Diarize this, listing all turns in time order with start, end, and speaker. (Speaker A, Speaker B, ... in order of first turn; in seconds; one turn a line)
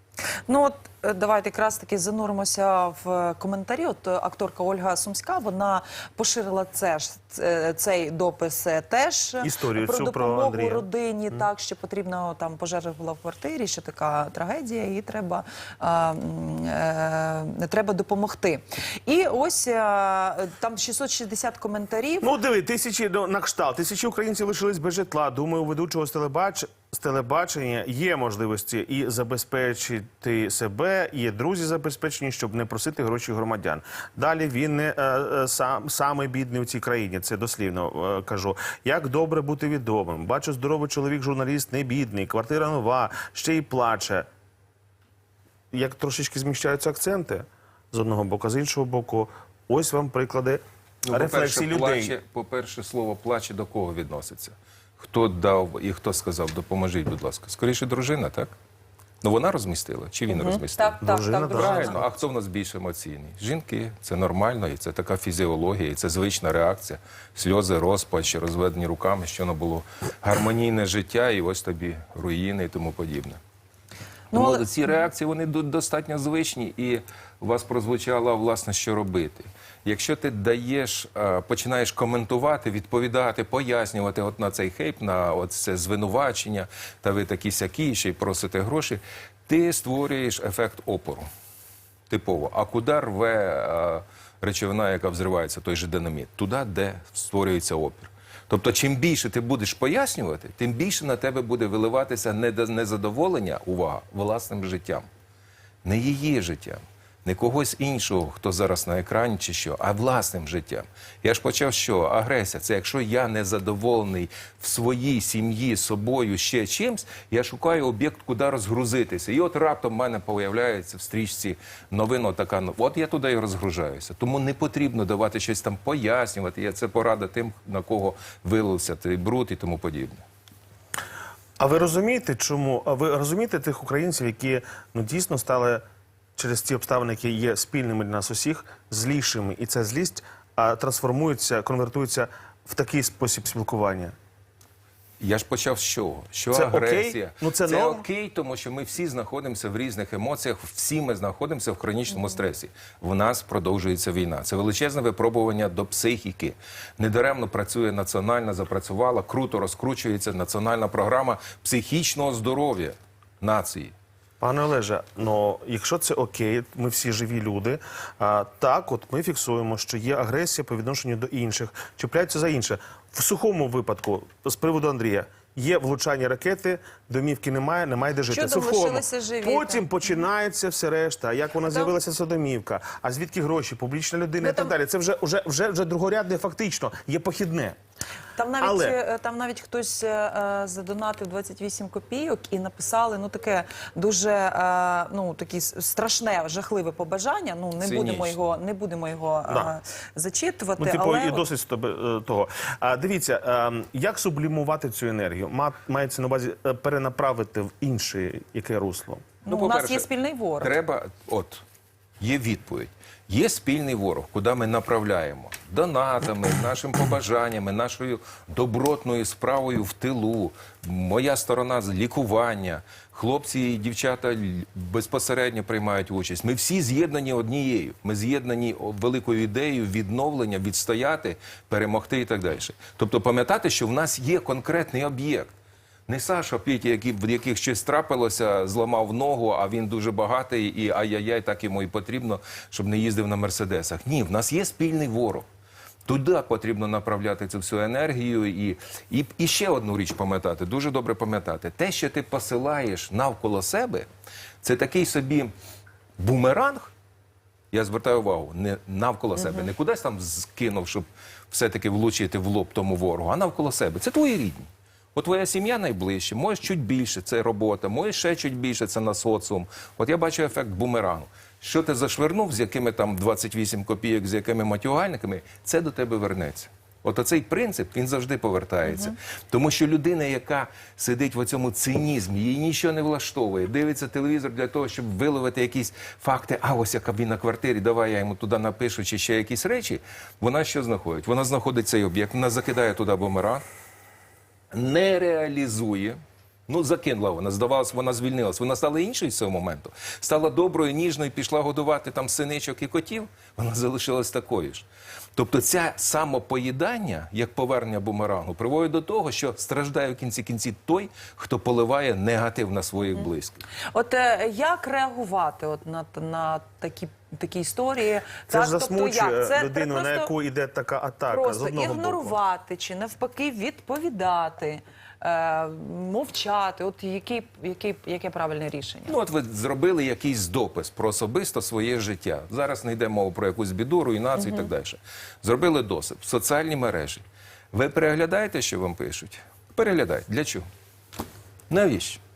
Speaker A: 0.5-22.3
Speaker B: 9.4-10.8
Speaker B: 22.2-44.3
Speaker B: 45.7-52.1
Speaker C: 51.0-58.5
Speaker C: 59.2-61.0
Speaker A: 60.3-62.0
Speaker B: 61.0-62.0
Speaker C: 61.5-73.4
Speaker A: 74.3-74.9
Speaker C: 74.3-91.3
Speaker C: 92.1-105.1
Speaker C: 105.8-130.2
Speaker B: 131.6-135.8
Speaker B: 136.4-144.1
Speaker C: 145.2-163.9
Speaker B: 146.5-148.0
Speaker B: 164.4-187.8
Speaker A: 178.3-179.9
Speaker A: 181.6-181.9
Speaker A: 184.4-184.7
Speaker A: 188.3-201.4
Speaker B: 188.6-189.0
Speaker C: 197.8-198.4
Speaker B: 199.5-199.7
Speaker B: 200.8-209.3
Speaker A: 209.4-210.8
Speaker C: 209.5-210.1
Speaker C: 210.6-211.6
Speaker C: 212.2-235.5
Speaker C: 236.1-245.5
Speaker C: 246.1-254.1
Speaker C: 254.6-255.5
Speaker C: 256.2-256.9
Speaker C: 257.7-293.6
Speaker A: 278.9-279.1
Speaker C: 294.7-313.6
Speaker A: 313.9-320.3
Speaker B: 318.5-322.4
Speaker A: 321.3-329.1
Speaker C: 329.1-340.6
Speaker A: 334.4-334.7
Speaker C: 341.7-342.2